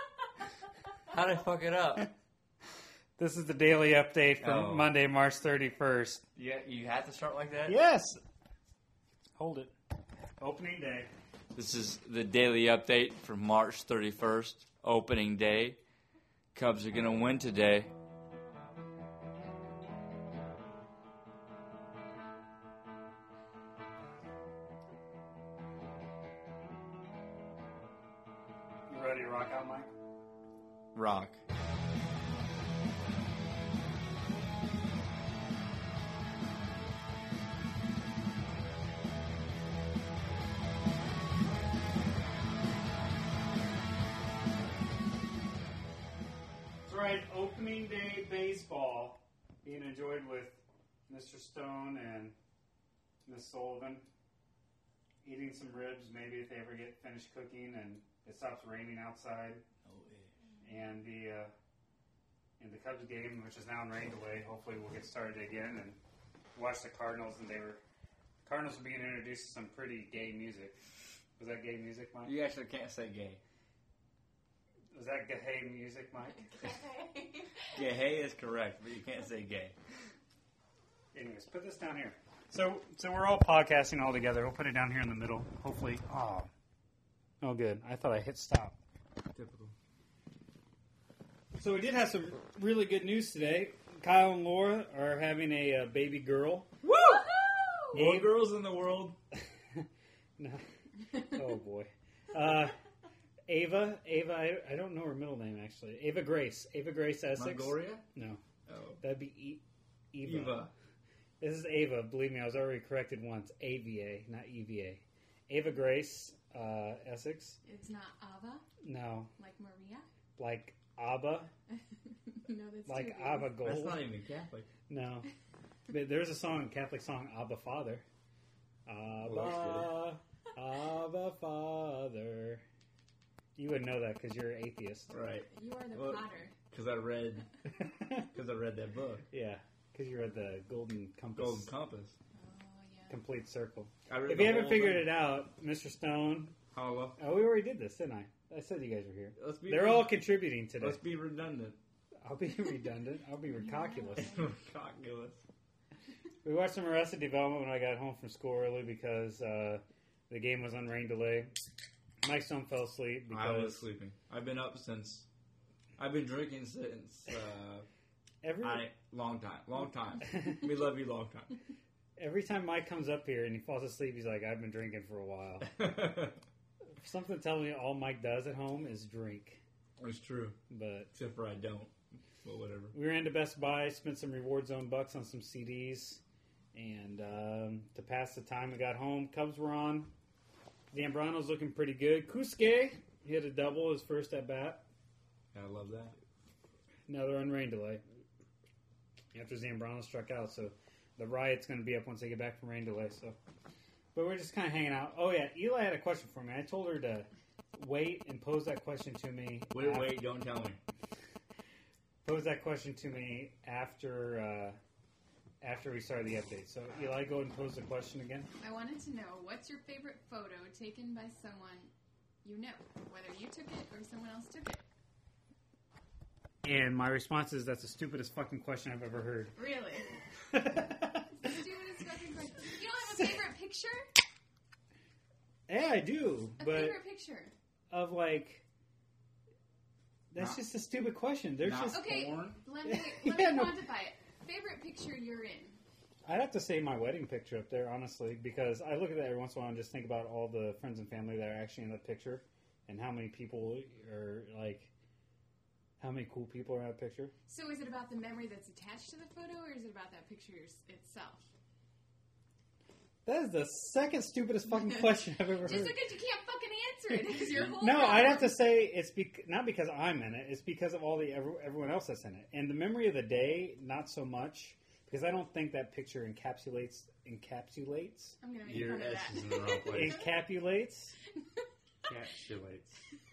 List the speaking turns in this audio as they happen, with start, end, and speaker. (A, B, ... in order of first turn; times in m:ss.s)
0:01.1-0:02.1 A
0:03.2-0:06.2 B
0:04.4-0:04.9 A
0:06.3-0:07.8 A
0:07.6-0:08.2 B
0:09.4-0:09.7 B
0:10.4-0:11.1 B
0:11.5-0:15.8 A
0:16.5-0:17.9 A
0:28.9-0:29.9 B
0:30.9-0:31.4 A
0:46.8-0:52.4 B
0:53.2-0:54.0 B
0:55.2-0:59.6 B
0:59.8-1:00.3 A
1:00.6-1:01.5 B
1:02.6-1:06.0 B
1:06.5-1:07.8 B
1:08.4-1:10.7 B
1:11.4-1:12.3 B
1:12.2-1:13.4 A
1:14.9-1:16.5 B
1:16.4-1:17.8 C
1:17.7-1:19.8 A
1:21.1-1:26.5 B
1:27.4-1:28.8 B
1:29.3-1:29.7 A
1:31.5-1:36.7 B
1:36.8-1:37.3 A
1:37.0-1:37.9 C
1:37.9-1:38.4 B
1:37.9-1:39.2 A
1:40.4-1:42.8 B
1:43.5-1:48.4 B
1:47.3-1:48.1 A
1:48.6-1:49.0 A
1:49.0-1:50.7 B
1:50.2-1:50.7 A
1:51.4-1:57.6 B
1:57.6-1:58.6 C
1:58.8-1:59.3 B
1:59.4-2:00.1 C
2:00.4-2:01.5 B
2:02.4-2:03.7 C
2:02.8-2:04.1 B
2:03.6-2:04.7 A
2:04.9-2:05.3 B
2:05.9-2:08.0 B
2:08.8-2:12.6 B
2:09.2-2:10.0 A
2:13.6-2:15.2 B
2:15.1-2:17.5 A
2:15.4-2:16.6 C
2:18.2-2:19.3 A
2:19.3-2:21.7 B
2:21.3-2:22.2 A
2:22.3-2:23.2 C
2:23.1-2:26.6 B
2:24.1-2:25.2 A
2:26.7-2:27.2 A
2:27.2-2:31.0 B
2:29.4-2:31.8 A
2:32.2-2:34.4 B
2:33.8-2:34.2 C
2:34.2-2:35.4 A
2:36.4-2:41.5 B
2:42.2-2:43.8 B
2:43.3-2:45.3 A
2:46.0-2:47.9 A
2:48.4-2:48.9 B
2:48.6-2:51.6 A
2:52.2-2:55.8 B
2:55.7-2:56.4 A
2:57.0-2:59.6 B
3:00.0-3:00.6 A
3:00.7-3:01.1 B
3:01.1-3:02.9 A
3:02.9-3:06.2 B
3:06.7-3:10.1 B
3:10.9-3:14.8 B
3:15.5-3:16.1 A
3:17.1-3:18.0 B
3:19.3-3:23.4 B
3:24.1-3:30.2 B
3:29.7-3:30.8 A
3:32.2-3:34.8 B
3:35.6-3:38.5 B
3:38.6-3:41.9 C
3:42.4-3:44.8 C
3:46.6-3:49.5 B
3:49.5-3:50.1 C
3:50.5-3:51.3 B
3:51.3-3:54.0 C
3:55.7-3:57.0 B
3:56.6-3:57.5 C
3:57.9-3:58.6 B
4:00.3-4:02.1 B
4:01.6-4:02.6 A
4:01.9-4:05.8 C
4:02.8-4:03.8 B
4:06.2-4:14.9 B
4:16.0-4:17.3 B
4:17.5-4:21.5 C
4:23.2-4:26.1 B
4:24.7-4:28.6 C
4:27.6-4:38.4 B
4:38.4-4:40.2 C
4:38.6-4:40.2 A
4:39.8-4:41.1 B
4:42.0-4:43.0 A